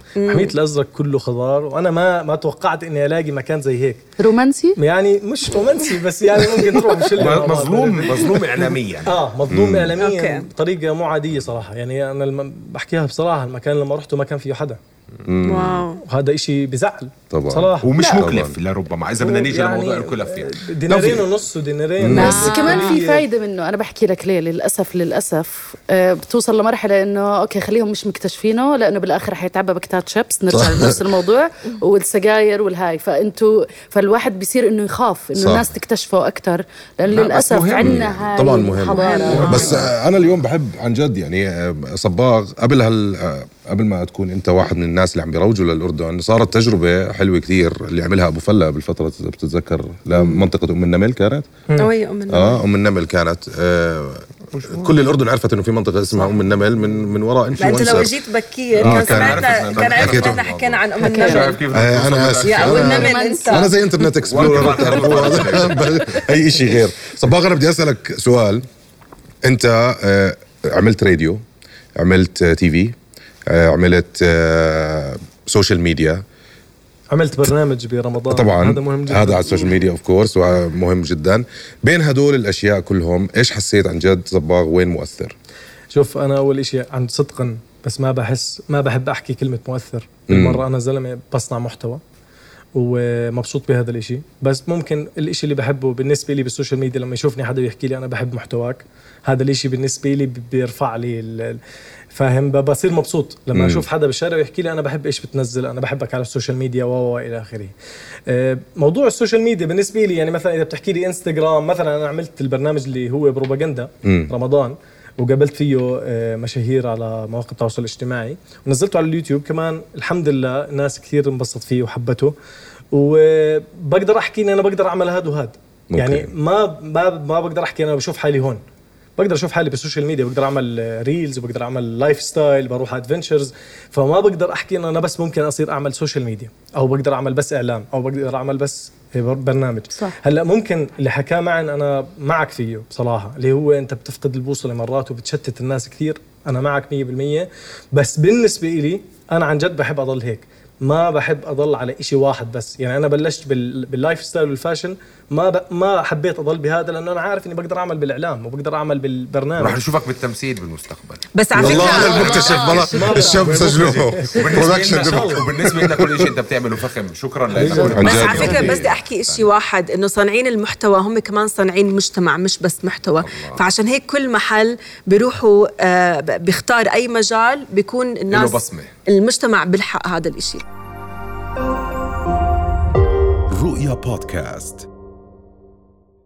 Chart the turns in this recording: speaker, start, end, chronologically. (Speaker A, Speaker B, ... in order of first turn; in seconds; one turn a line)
Speaker A: 0.2-0.5
Speaker B: 0.2-4.0
Speaker C: 4.2-4.8
Speaker B: 4.8-8.4
Speaker D: 7.2-9.2
Speaker B: 9.1-14.8
Speaker E: 9.5-9.9
Speaker A: 10.0-10.5
Speaker E: 15.2-15.9
Speaker A: 15.4-16.0
Speaker B: 16.0-18.1
Speaker E: 17.3-18.6
Speaker D: 17.8-20.6
Speaker A: 18.0-18.2
Speaker B: 19.2-23.2
Speaker E: 20.9-21.3
Speaker E: 22.0-22.5
Speaker C: 22.1-39.8
Speaker A: 22.2-23.0
Speaker E: 30.5-31.1
Speaker E: 35.4-35.7
Speaker D: 37.1-38.3
Speaker E: 37.8-51.5
Speaker A: 38.8-39.9
Speaker D: 39.4-39.9
Speaker A: 50.1-50.5
Speaker A: 51.8-52.6
Speaker E: 52.3-58.2
Speaker A: 57.6-61.7
Speaker D: 58.7-63.1
Speaker E: 58.8-60.5
Speaker C: 61.0-61.5
Speaker E: 61.7-68.6
Speaker A: 62.4-63.7
Speaker C: 62.6-63.6
Speaker D: 64.2-66.3
Speaker E: 69.4-71.4
Speaker E: 72.0-73.0
Speaker E: 73.5-76.2
Speaker B: 77.1-79.7
Speaker E: 78.3-85.3
Speaker B: 85.9-92.0
Speaker E: 90.3-90.6
Speaker B: 92.8-101.6
Speaker B: 102.1-107.7
Speaker E: 103.5-103.9
Speaker B: 108.3-122.3
Speaker E: 114.0-114.3
Speaker B: 122.9-128.6
Speaker E: 125.9-126.3
Speaker B: 129.2-159.8
Speaker D: 159.6-169.5
Speaker A: 161.3-162.7
Speaker B: 161.6-165.4
Speaker E: 161.6-166.4
Speaker C: 161.8-163.7
Speaker B: 167.5-168.6
Speaker E: 167.6-168.8
Speaker A: 167.9-180.7
Speaker D: 173.3-173.6
Speaker D: 178.3-178.9
Speaker D: 183.6-184.9